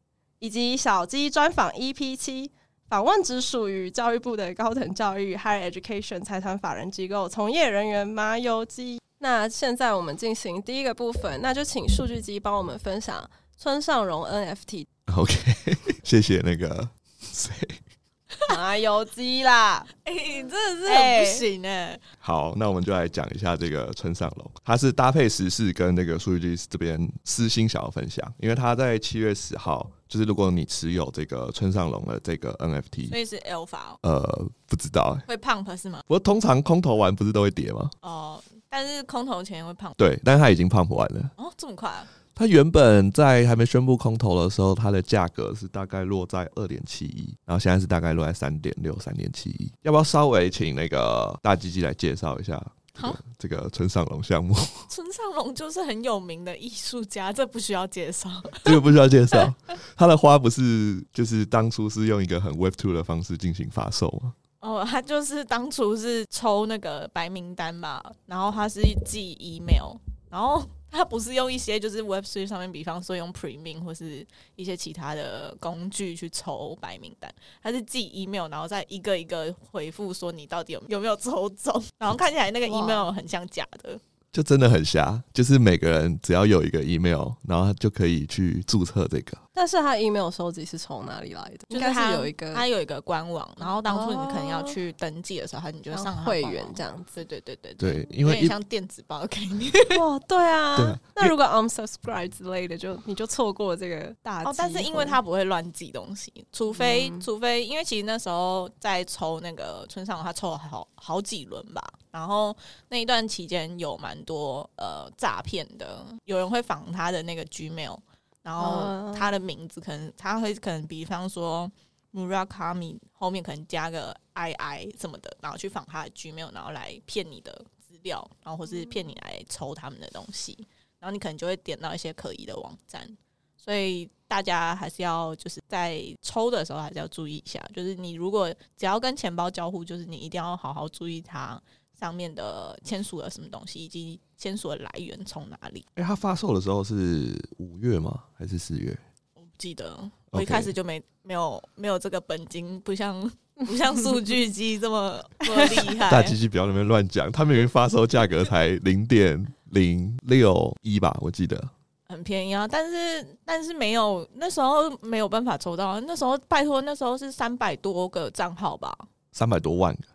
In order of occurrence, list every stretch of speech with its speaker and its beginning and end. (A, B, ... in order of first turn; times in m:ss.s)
0:00.4-0:14.9 A
0:15.1-0:17.8 B
0:18.5-0:19.9 A
0:20.0-0:22.0 C
0:20.9-0:21.4 A
0:22.2-0:33.1 B
0:33.1-0:34.0 C
0:34.0-0:35.2 B
0:35.3-0:36.0 C
0:36.1-0:37.9 B
0:38.0-0:40.0 C
0:40.0-0:41.3 B
0:41.4-0:42.1 C
0:42.4-0:54.8 B
0:54.9-0:59.4 C
0:58.6-1:04.4 B
1:04.6-1:24.0 C
1:22.6-1:23.1 A
1:24.3-1:29.4 B
1:29.5-1:32.6 A
1:31.7-1:40.0 C
1:33.8-1:34.8 A
1:35.9-1:37.2 A
1:37.8-1:38.5 B
1:39.9-1:45.2 A
1:40.8-1:41.4 B
1:44.4-2:25.8 C
1:46.7-1:47.2 A
1:58.6-1:59.3 A
2:26.0-2:29.0 B
2:29.4-2:36.4 C
2:30.3-2:30.7 B
2:36.0-2:41.7 B
2:42.1-2:49.1 C
2:49.3-2:50.1 B